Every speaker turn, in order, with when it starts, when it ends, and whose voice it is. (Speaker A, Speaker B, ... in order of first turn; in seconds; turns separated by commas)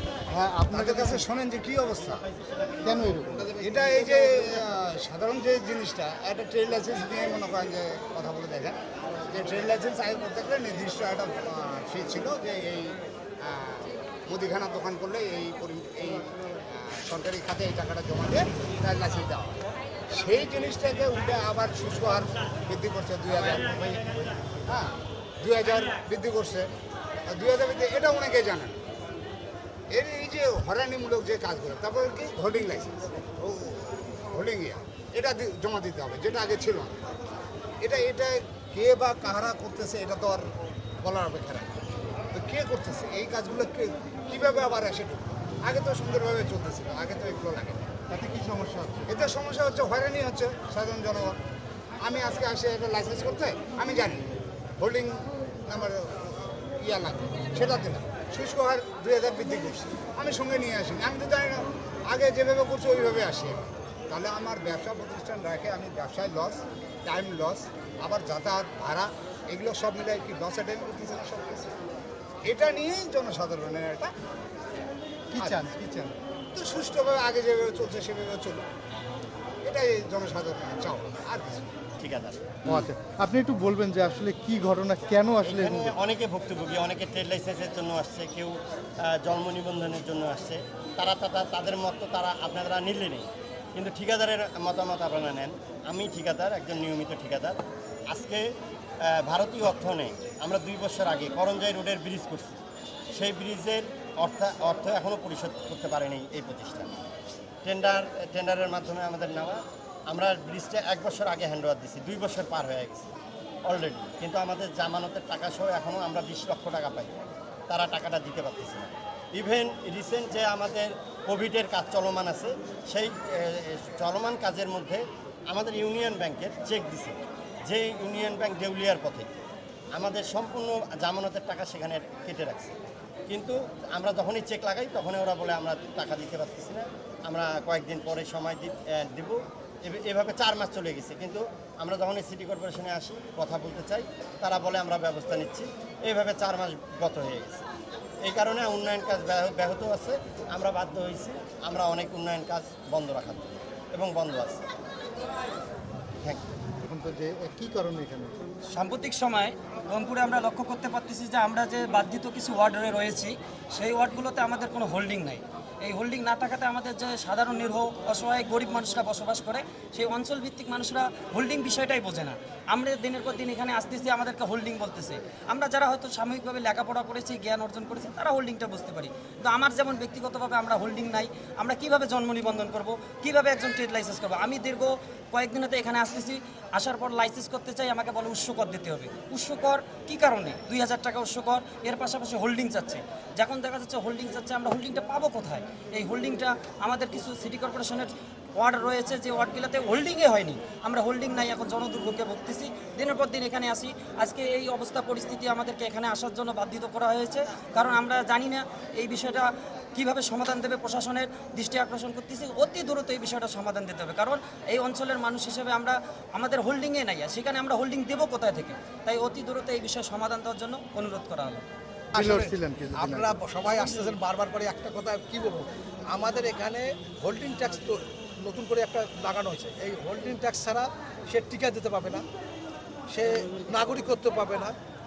Speaker A: 0.3-1.2, Speaker B: 0.7-2.2, Speaker A: 2.8-3.5, Speaker B: 3.5-26.7, Speaker B: 27.3-28.8, Speaker B: 29.9-37.1, Speaker B: 37.8-40.5, Speaker B: 41.0-48.1, Speaker A: 48.1-49.0, Speaker B: 49.0-51.4, Speaker B: 52.0-71.8, Speaker B: 72.5-74.1, Speaker A: 75.3-76.2, Speaker B: 75.3-75.6, Speaker B: 76.5-78.6, Speaker B: 79.7-81.7, Speaker C: 82.0-82.6, Speaker A: 82.6-85.9, Speaker C: 85.4-98.4, Speaker C: 99.0-102.6, Speaker C: 103.1-107.0, Speaker C: 107.6-113.1, Speaker C: 113.7-117.1, Speaker C: 117.7-129.3, Speaker C: 129.9-132.8, Speaker C: 133.3-147.6, Speaker C: 148.2-154.7, Speaker A: 156.8-158.4, Speaker D: 158.7-221.6, Speaker E: 222.1-232.2, Speaker A: 222.1-223.3, Speaker E: 233.1-234.7